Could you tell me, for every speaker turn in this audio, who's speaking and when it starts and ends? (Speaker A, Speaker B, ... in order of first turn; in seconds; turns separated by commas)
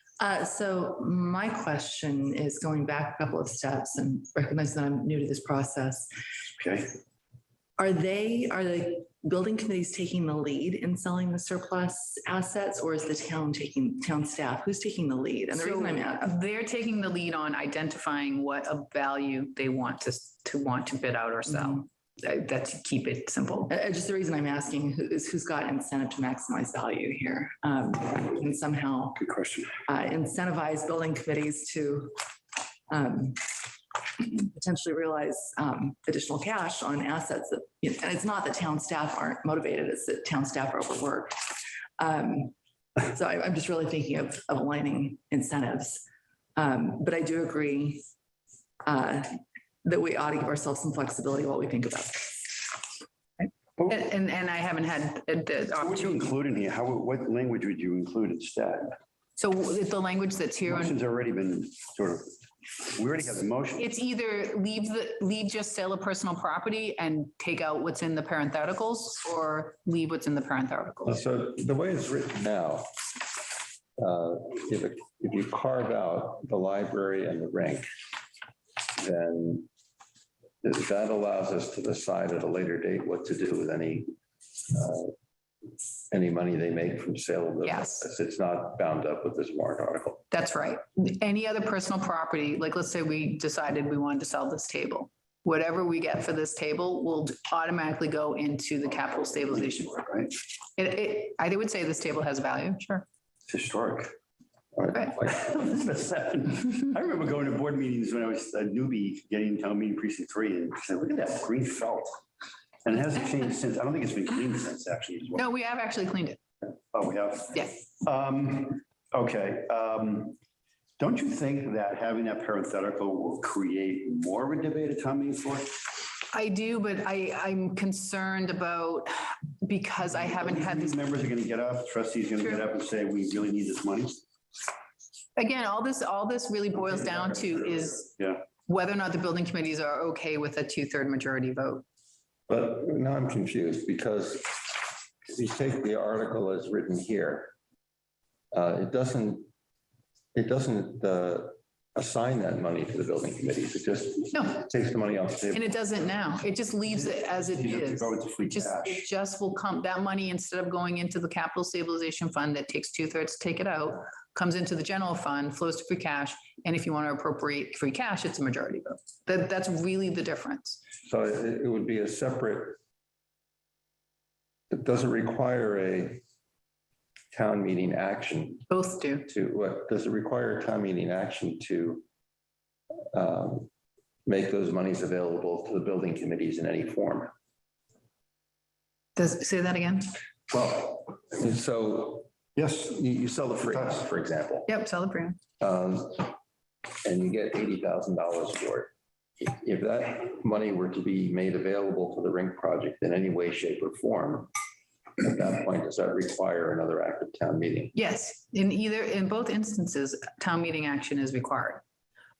Speaker A: 0.2-6.1, Speaker B: 6.6-6.9, Speaker A: 7.8-16.3, Speaker C: 15.5-23.7, Speaker A: 23.7-29.2, Speaker B: 29.1-29.8, Speaker A: 29.9-32.1, Speaker A: 32.9-42.5, Speaker A: 43.1-46.0, Speaker A: 46.5-48.0, Speaker A: 48.8-49.3, Speaker A: 49.8-52.7, Speaker C: 53.9-56.3, Speaker B: 55.8-58.9, Speaker C: 59.4-61.0, Speaker B: 60.6-62.3, Speaker B: 62.9-63.9, Speaker C: 63.8-71.2, Speaker D: 71.0-72.9, Speaker D: 74.0-77.9, Speaker D: 79.0-79.7, Speaker D: 80.6-84.1, Speaker D: 84.7-85.1, Speaker D: 86.1-90.2, Speaker C: 87.6-88.0, Speaker C: 90.3-99.9, Speaker B: 99.1-100.3, Speaker C: 100.8-103.0, Speaker B: 103.5-104.1, Speaker D: 104.8-105.5, Speaker B: 105.2-112.1, Speaker B: 112.8-115.5, Speaker C: 115.3-116.4, Speaker B: 116.9-120.4, Speaker B: 121.0-125.8, Speaker C: 126.3-131.0, Speaker B: 130.1-134.2, Speaker C: 135.3-138.1, Speaker B: 138.2-138.4, Speaker C: 138.6-141.8, Speaker D: 142.5-147.5, Speaker D: 148.5-149.5, Speaker D: 150.3-155.7, Speaker C: 154.3-154.6, Speaker C: 155.5-170.8, Speaker B: 156.8-159.1, Speaker D: 171.0-172.8, Speaker D: 174.7-176.2, Speaker D: 177.3-178.7, Speaker C: 178.7-179.3, Speaker D: 179.3-182.0, Speaker D: 183.1-183.7, Speaker D: 184.2-187.3, Speaker C: 189.2-190.1, Speaker D: 190.5-192.3, Speaker B: 192.6-193.0, Speaker D: 192.8-194.7, Speaker B: 193.6-194.1, Speaker C: 194.7-195.4, Speaker D: 195.6-196.3, Speaker D: 197.0-204.5, Speaker D: 205.2-207.9, Speaker C: 207.9-211.8